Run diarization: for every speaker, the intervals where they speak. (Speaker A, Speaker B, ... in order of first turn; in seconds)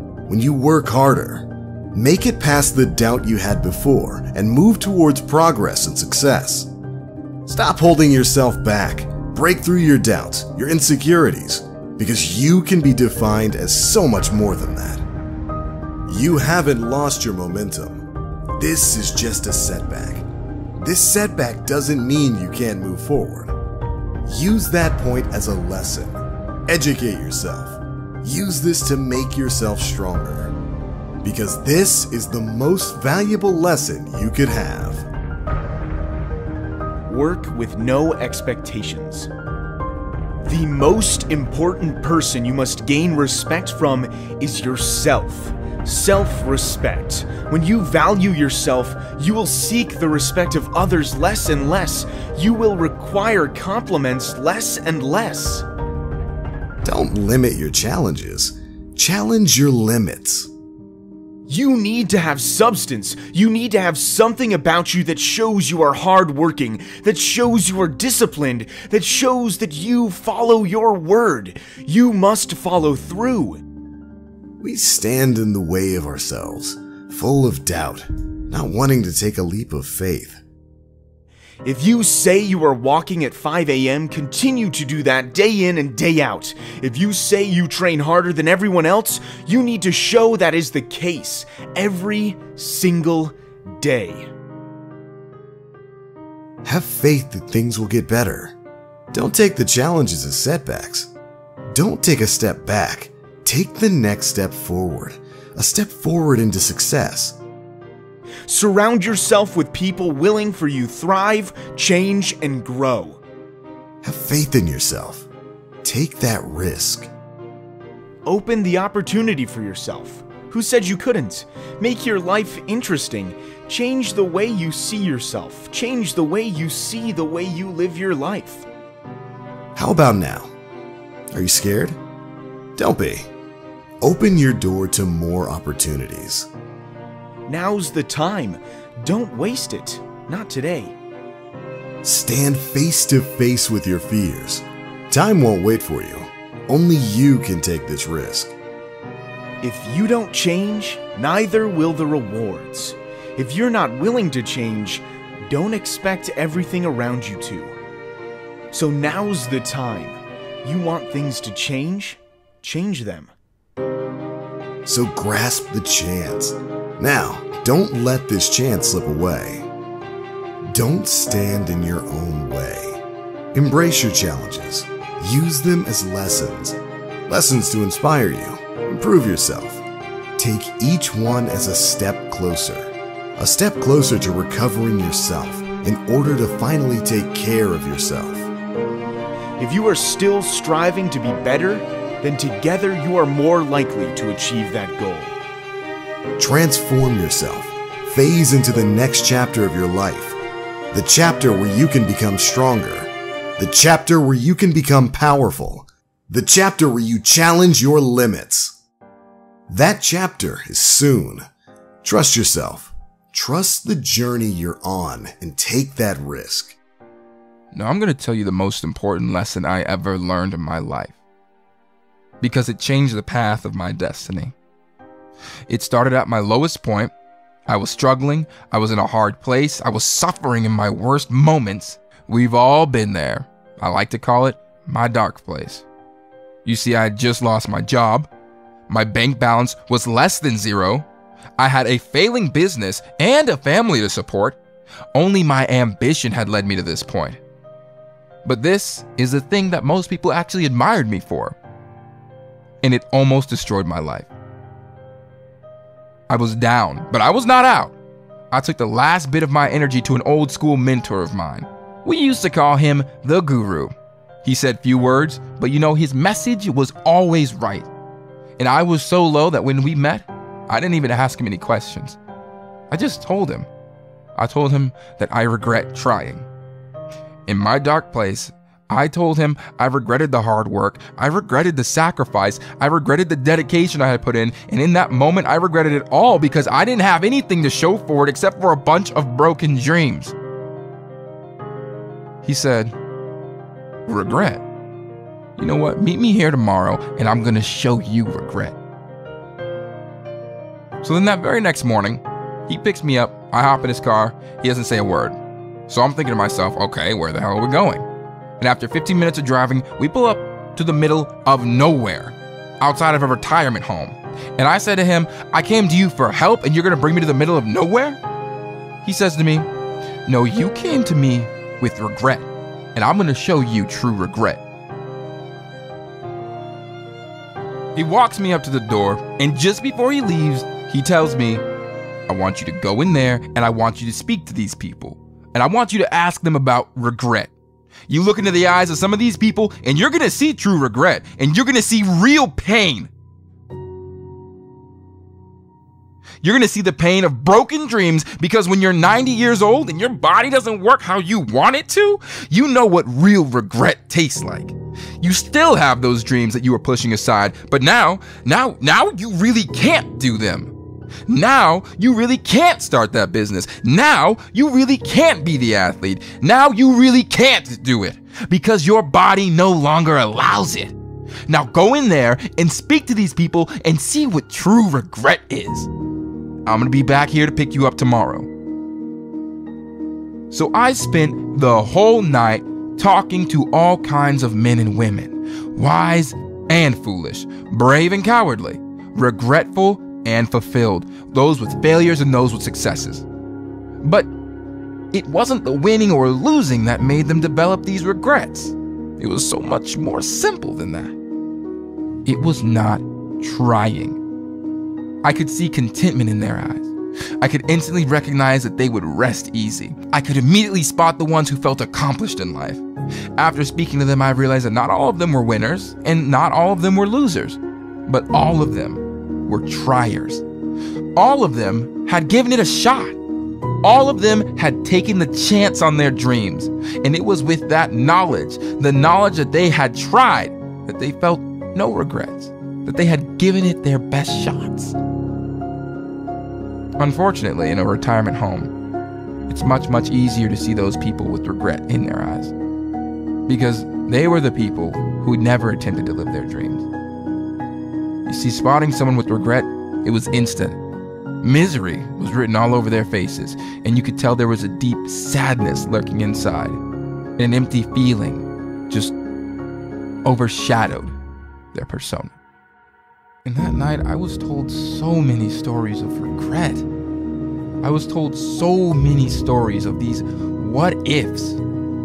Speaker A: 0.3-6.7, 7.5-15.1, 16.1-18.0, 18.6-23.6, 24.2-30.6, 31.2-35.1, 56.8-60.5, 74.6-80.4, 96.6-98.5, 99.1-101.1, 101.7-107.4, 114.0-115.3, 115.8-117.1, 129.8-130.5, 131.3-132.0, 132.8-133.3, 134.0-136.5, 142.0-148.5, 164.8-169.7, 170.6-173.0, 173.5-179.8, 180.4-188.5, 196.4-200.4, 200.9-208.8, 209.7-211.4, 212.0-216.8
Speaker B: 37.1-39.3, 40.4-55.6, 61.5-73.6, 81.6-94.3, 108.5-113.2, 118.2-128.7, 137.5-141.0, 149.6-157.8, 158.7-163.3, 189.6-195.4
Speaker C: 217.7-221.1, 222.4-224.5, 225.7-227.1, 227.7-235.8, 236.6-238.3, 238.9-241.1, 241.6-244.6, 245.1-247.4, 248.4-251.6, 252.8-254.3, 256.3-257.9, 258.5-267.9, 268.6-272.2, 272.9-273.7, 274.4-276.5, 277.5-290.3, 292.4-292.9, 294.1-294.6, 295.6-298.8, 301.0-305.4, 305.9-308.1, 308.6-318.2, 319.0-319.7, 320.3-324.6, 327.9-331.6, 332.3-337.5, 338.1-343.1, 346.4-360.7, 361.3-370.9, 371.5-375.9, 376.6-378.5, 380.5-393.2, 394.0-394.3, 395.1-401.1, 402.3-404.2, 405.2-412.8, 413.4-420.4, 421.2-423.2, 423.8-434.9, 437.0-438.7, 439.5-442.5, 443.5-446.9, 448.3-450.8, 451.4-456.8, 457.4-459.1, 460.2-461.1, 461.7-462.3, 463.4-466.9, 467.8-471.6